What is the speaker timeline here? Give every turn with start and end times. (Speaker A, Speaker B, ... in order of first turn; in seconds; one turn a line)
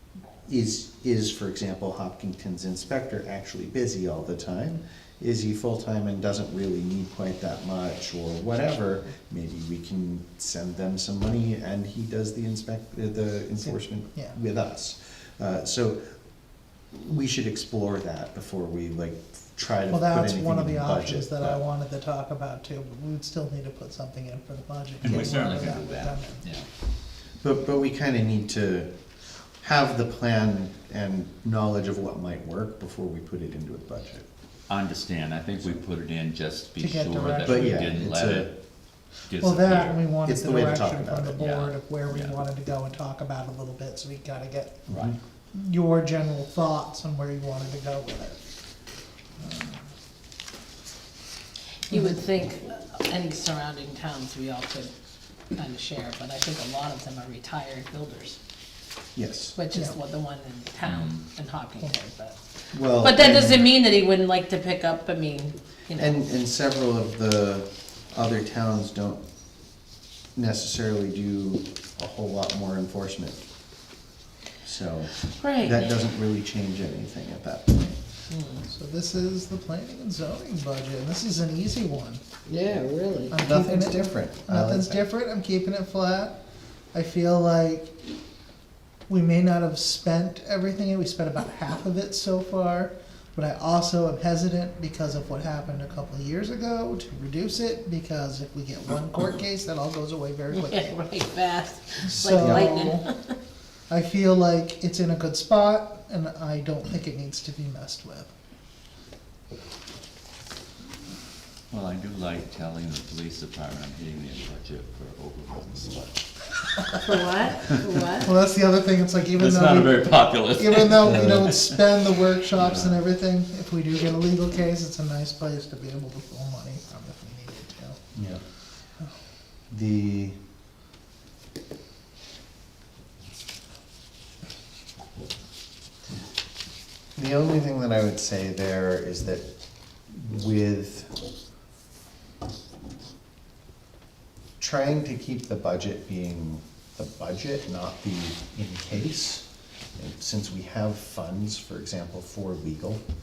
Speaker A: 0.5-16.0
Speaker B: 13.6-14.4
Speaker A: 16.9-21.6
Speaker B: 19.9-26.4
Speaker C: 25.0-26.7
Speaker A: 27.4-28.9
Speaker A: 29.6-34.3
Speaker C: 34.7-38.5
Speaker B: 36.8-38.1
Speaker A: 37.4-38.5
Speaker C: 39.2-40.0
Speaker B: 39.4-44.8
Speaker A: 40.2-41.4
Speaker C: 41.4-42.4
Speaker A: 44.9-45.2
Speaker C: 44.9-45.2
Speaker B: 45.5-48.4
Speaker B: 49.4-49.8
Speaker D: 51.9-54.9
Speaker D: 55.5-58.4
Speaker A: 59.2-59.6
Speaker D: 59.6-62.4
Speaker C: 60.9-61.2
Speaker A: 62.7-63.7
Speaker D: 63.0-66.2
Speaker A: 66.0-69.2
Speaker A: 70.3-73.4
Speaker A: 74.6-77.9
Speaker D: 75.3-76.0
Speaker D: 78.3-78.6
Speaker B: 78.6-82.2
Speaker D: 82.5-83.4
Speaker B: 83.3-86.4
Speaker A: 83.4-85.0
Speaker B: 86.9-87.9
Speaker B: 89.1-101.0
Speaker D: 100.5-103.3
Speaker B: 102.1-103.1
Speaker A: 102.2-102.9
Speaker B: 103.9-108.3
Speaker C: 111.7-116.2
Speaker D: 117.0-118.3
Speaker C: 117.6-117.9
Speaker B: 118.2-128.0
Speaker C: 119.3-122.0
Speaker A: 121.0-121.5
Speaker A: 128.2-128.4
Speaker A: 129.7-130.4
Speaker A: 137.2-139.4
Speaker A: 140.1-141.1
Speaker A: 144.6-149.5
Speaker A: 150.0-153.0